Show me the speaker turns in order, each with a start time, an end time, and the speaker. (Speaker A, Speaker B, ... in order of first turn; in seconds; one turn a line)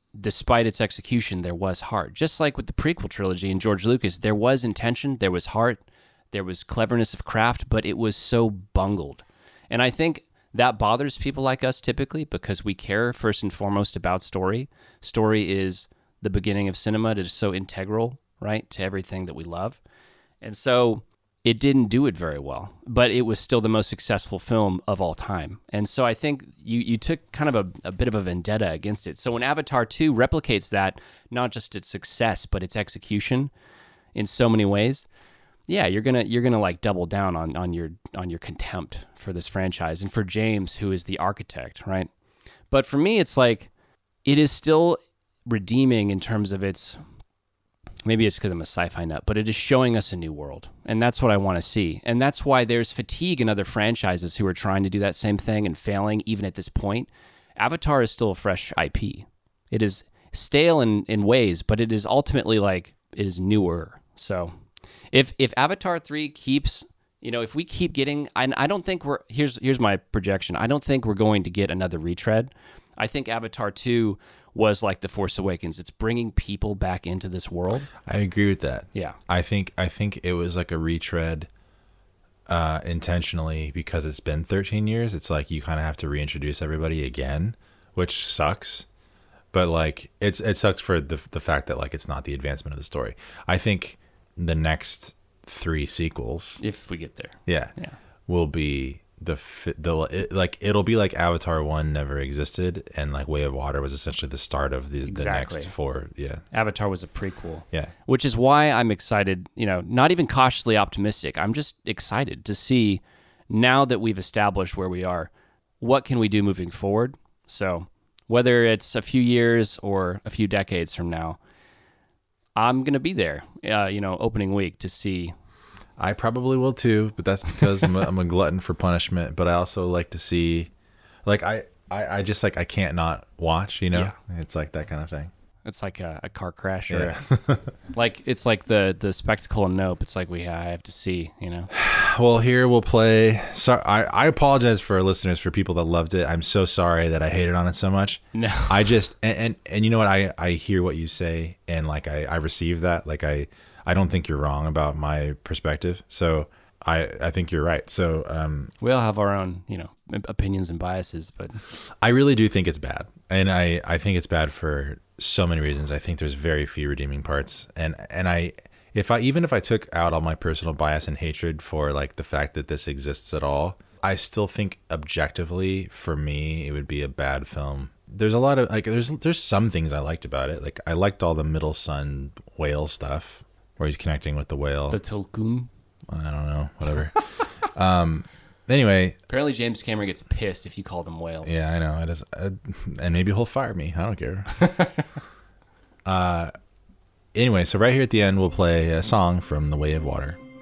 Speaker A: 0.2-19.8
Speaker A: 20.4-33.5
Speaker A: 34.1-35.1
Speaker A: 35.7-42.1
Speaker A: 42.7-43.7
Speaker A: 44.2-47.0
Speaker A: 48.0-64.5
Speaker A: 65.1-77.9
Speaker B: 78.0-81.5
Speaker B: 82.5-88.9
Speaker B: 89.5-96.6
Speaker A: 96.6-98.0
Speaker B: 97.5-97.7
Speaker B: 98.3-106.4
Speaker A: 105.0-105.7
Speaker A: 106.5-121.4
Speaker A: 122.6-125.3
Speaker B: 126.0-130.7
Speaker B: 131.3-135.3
Speaker A: 135.7-137.2
Speaker B: 136.9-137.7
Speaker A: 137.9-141.7
Speaker B: 141.7-158.7
Speaker A: 148.3-148.9
Speaker A: 158.8-161.6
Speaker B: 162.0-185.0
Speaker A: 184.9-185.7
Speaker B: 186.1-189.2
Speaker A: 189.3-191.6
Speaker B: 191.4-194.5
Speaker A: 194.6-195.0
Speaker B: 196.1-196.5
Speaker B: 197.3-200.4